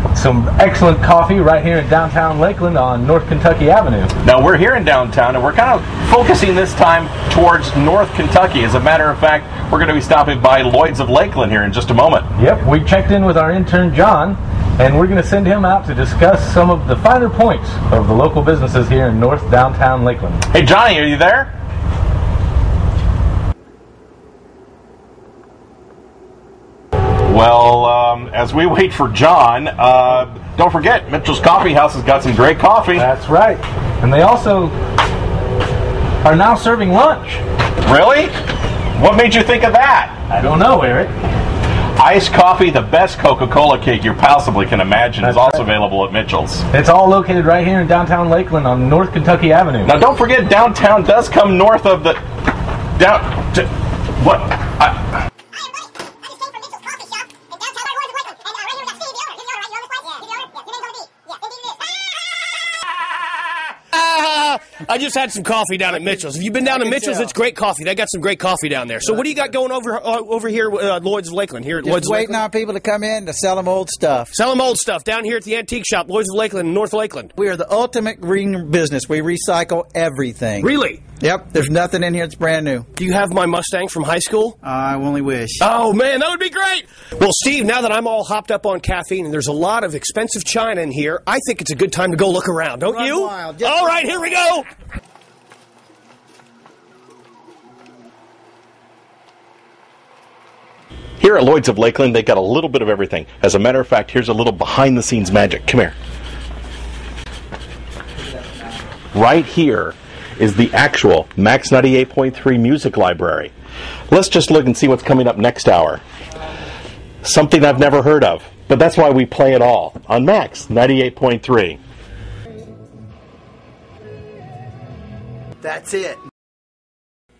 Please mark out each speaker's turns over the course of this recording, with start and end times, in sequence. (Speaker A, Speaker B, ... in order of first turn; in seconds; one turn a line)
Speaker A: 0.1-4.1
Speaker B: 4.2-12.3
Speaker A: 12.4-20.4
Speaker B: 20.5-21.5
Speaker B: 27.2-33.0
Speaker A: 33.0-34.7
Speaker A: 36.2-37.4
Speaker B: 37.8-38.3
Speaker B: 39.0-40.1
Speaker A: 40.3-41.1
Speaker B: 42.0-46.6
Speaker A: 45.2-45.7
Speaker A: 46.7-50.0
Speaker B: 49.8-52.2
Speaker B: 53.0-55.0
Speaker C: 63.9-72.4
Speaker D: 66.0-67.3
Speaker D: 69.1-69.4
Speaker D: 71.8-74.3
Speaker C: 74.3-77.3
Speaker D: 77.4-82.9
Speaker C: 80.6-81.0
Speaker C: 83.0-84.6
Speaker D: 84.6-85.7
Speaker C: 85.6-94.7
Speaker D: 92.8-94.3
Speaker B: 101.2-106.0
Speaker B: 109.1-113.5
Speaker B: 114.1-116.0
Speaker B: 117.2-121.8
Speaker D: 125.6-126.2